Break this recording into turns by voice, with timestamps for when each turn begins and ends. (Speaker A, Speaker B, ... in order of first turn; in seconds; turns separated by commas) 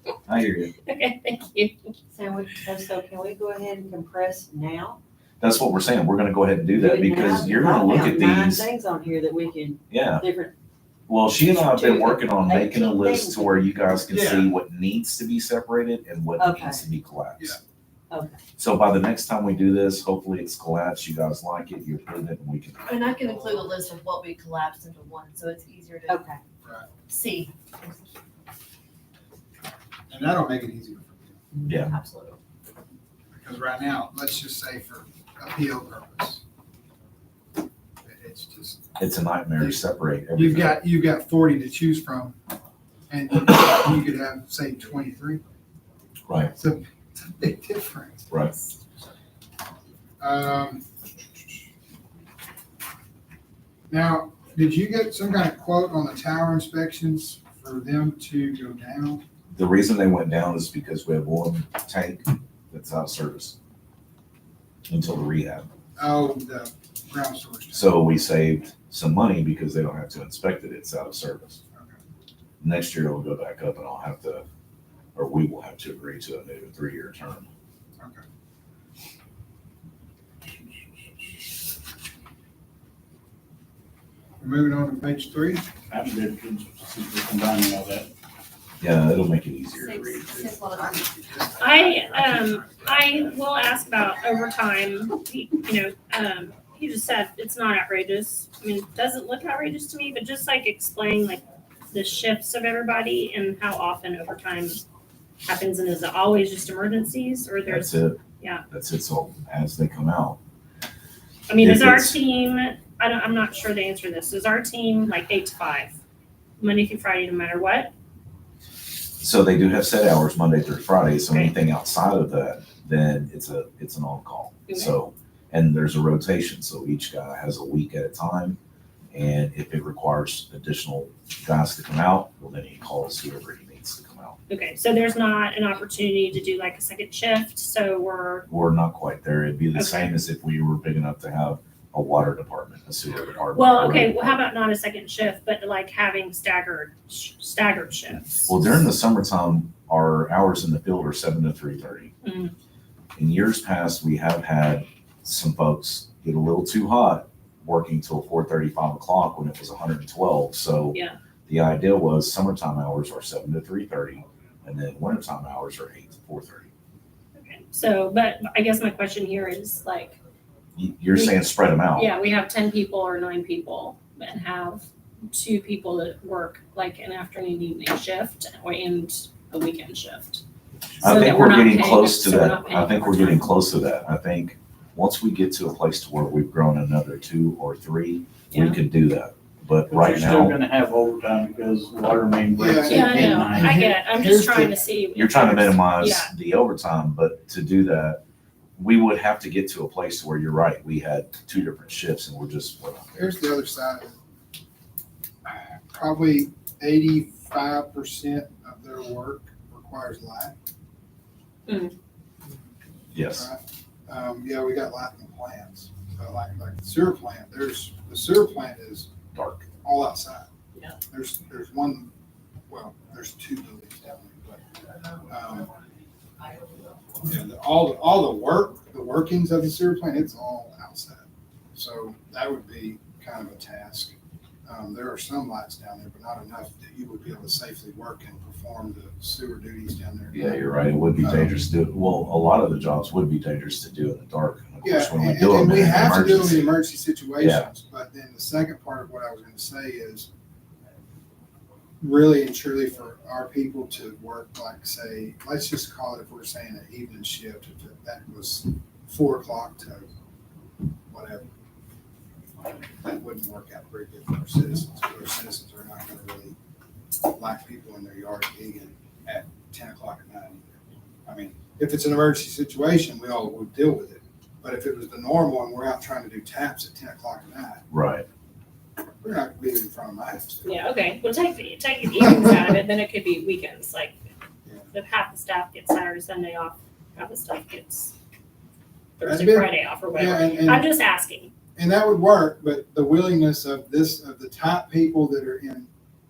Speaker A: 0.2-0.7, Speaker B: 0.8-1.9, Speaker C: 2.1-5.0, Speaker A: 5.4-8.7, Speaker C: 6.7-10.5, Speaker A: 9.9-10.3, Speaker A: 11.1-17.6, Speaker C: 11.5-13.9, Speaker D: 14.1-14.5, Speaker C: 16.4-16.8, Speaker C: 18.1-18.4, Speaker A: 18.6-23.1, Speaker E: 22.8-26.2, Speaker C: 26.1-26.4, Speaker D: 26.6-26.9, Speaker E: 27.1-28.1, Speaker D: 30.1-31.5, Speaker A: 31.6-31.9, Speaker E: 31.7-32.4, Speaker D: 33.3-36.4, Speaker D: 38.0-39.0, Speaker A: 39.0-40.8, Speaker D: 39.6-42.4, Speaker D: 43.1-45.4, Speaker A: 46.3-46.5, Speaker D: 46.5-48.7, Speaker D: 50.2-50.8, Speaker D: 53.9-59.2, Speaker A: 59.5-63.6, Speaker A: 64.9-65.7, Speaker D: 66.0-68.2, Speaker A: 67.7-71.6, Speaker A: 72.6-74.4, Speaker A: 75.1-77.5, Speaker D: 78.0-78.2, Speaker D: 84.4-85.6, Speaker F: 85.9-88.1, Speaker A: 88.8-90.0, Speaker E: 89.8-92.0, Speaker D: 90.0-93.2, Speaker B: 91.6-104.8, Speaker B: 105.4-108.6, Speaker A: 107.6-110.4, Speaker B: 111.5-115.9, Speaker A: 111.6-112.2, Speaker B: 116.6-117.9, Speaker A: 119.2-128.6, Speaker B: 124.7-125.0, Speaker A: 129.1-134.4, Speaker B: 134.5-138.4, Speaker A: 138.5-144.4, Speaker B: 139.7-140.2, Speaker B: 143.5-148.7, Speaker A: 148.5-152.1, Speaker B: 152.2-152.5, Speaker A: 153.2-166.7, Speaker B: 167.3-170.2, Speaker A: 170.8-172.1, Speaker B: 171.1-180.4, Speaker F: 181.0-181.3, Speaker B: 181.0-183.6, Speaker A: 181.0-190.6, Speaker B: 188.5-188.8, Speaker F: 189.9-193.9, Speaker D: 192.6-194.8, Speaker B: 192.8-196.3, Speaker A: 195.1-198.2, Speaker A: 198.8-203.4, Speaker D: 203.2-204.2, Speaker D: 205.4-210.5, Speaker C: 211.7-211.9, Speaker A: 213.1-213.5, Speaker D: 213.2-219.1, Speaker A: 219.3-219.7, Speaker D: 219.8-220.5, Speaker D: 221.1-222.1, Speaker D: 222.7-224.6, Speaker D: 225.2-225.7, Speaker D: 227.2-234.1, Speaker D: 234.7-240.6, Speaker A: 240.3-246.8, Speaker D: 241.2-241.6, Speaker D: 244.8-250.3, Speaker A: 247.4-247.7, Speaker D: 252.0-260.1, Speaker D: 261.1-261.5, Speaker D: 262.5-266.6, Speaker D: 267.2-270.7, Speaker D: 271.2-277.8, Speaker A: 277.9-278.2, Speaker D: 279.2-280.7, Speaker B: 280.6-284.2, Speaker B: 284.9-288.1, Speaker B: 289.2-291.5, Speaker D: 289.2-290.9, Speaker D: 291.8-295.9